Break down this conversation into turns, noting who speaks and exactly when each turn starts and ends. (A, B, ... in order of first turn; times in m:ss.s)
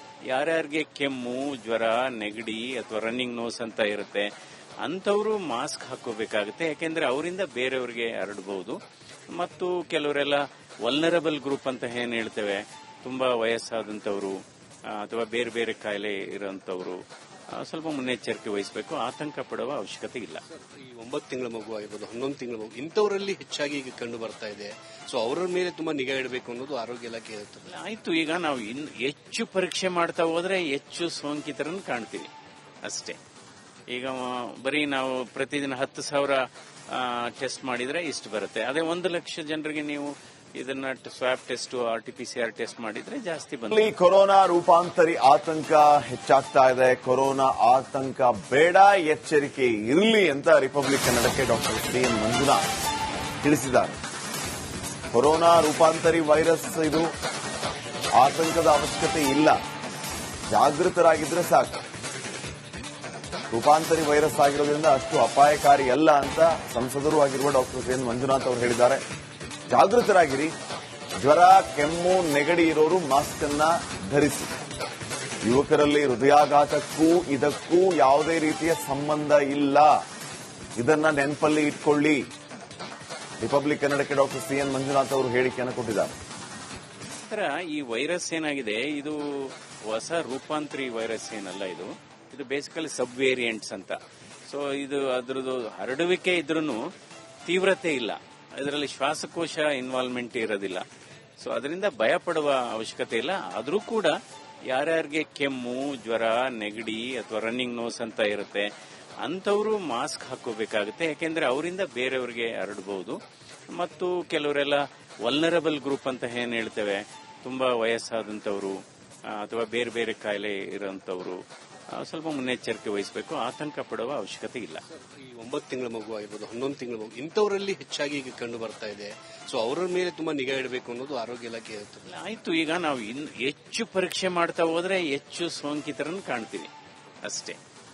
0:00.3-0:04.3 A
0:04.8-0:08.8 A
0:09.3-0:14.3 A
0:14.9-0:17.0 A
0:17.6-0:20.4 A
0:20.8-0:27.6 B
0:27.6-0:32.3 A
0:32.8-0:33.2 A
0:33.9-0:43.9 A
0:43.7-0:52.7 C
0:53.4-0:54.0 C
0:55.1-0:57.1 C
0:58.2-0:59.6 C
1:00.5-1:01.8 C
1:03.5-1:09.0 C
1:09.7-1:10.5 C
1:11.2-1:14.5 C
1:15.4-1:19.9 C
1:20.8-1:22.2 C
1:23.4-1:26.2 C
1:27.2-1:36.8 A
1:37.4-1:40.8 A
1:41.4-1:44.1 A
1:44.7-1:48.7 A
1:49.2-1:53.2 A
1:53.7-1:58.7 A
1:59.3-2:01.4 A
2:02.0-2:04.8 A
2:05.2-2:12.0 B
2:12.0-2:16.7 A
2:17.2-2:17.6 A